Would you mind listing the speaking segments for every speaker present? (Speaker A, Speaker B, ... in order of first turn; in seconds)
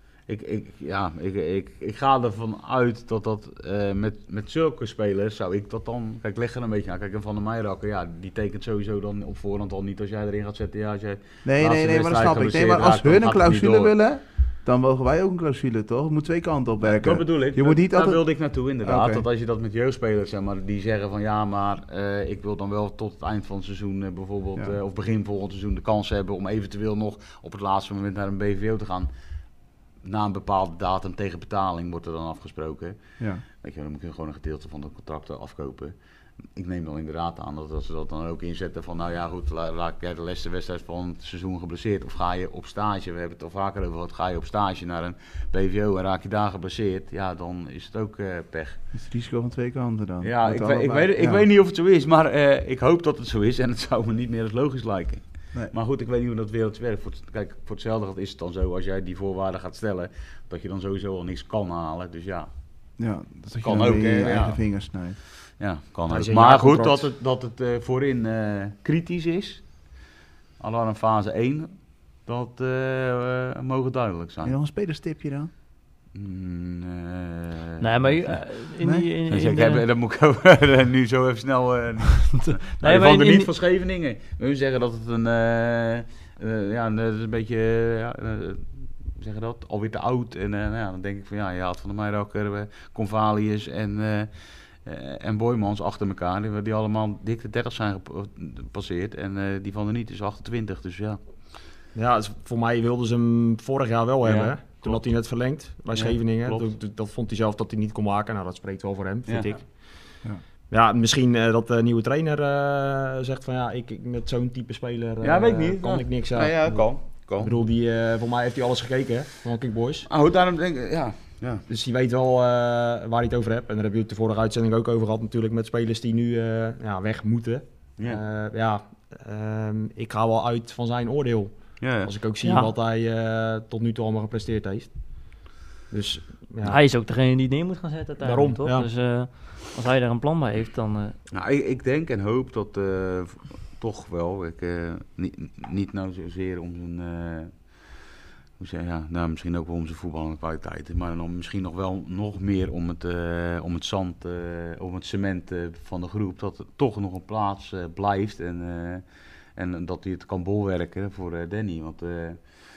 Speaker A: 0.3-13.9, 16.8-29.1, 30.0-33.0, 33.6-36.0, 36.5-48.8, 50.2-62.5, 63.6-64.6, 65.6-69.9, 70.6-74.5, 76.1-78.4, 79.3-94.3, 94.8-101.2, 104.2-105.1, 105.9-106.8, 115.2-117.5, 120.1-121.6, 131.8-132.1, 141.3-147.9, 148.6-159.1, 159.6-162.4
Speaker B: 11.4-19.2, 48.9-51.5, 63.0-65.2, 74.4-75.5, 78.8-79.1
Speaker C: 66.1-67.1, 102.0-110.1, 110.7-120.1, 121.7-136.8, 138.2-138.9
Speaker D: 77.8-79.8, 82.3-83.5, 132.4-132.7, 136.7-141.2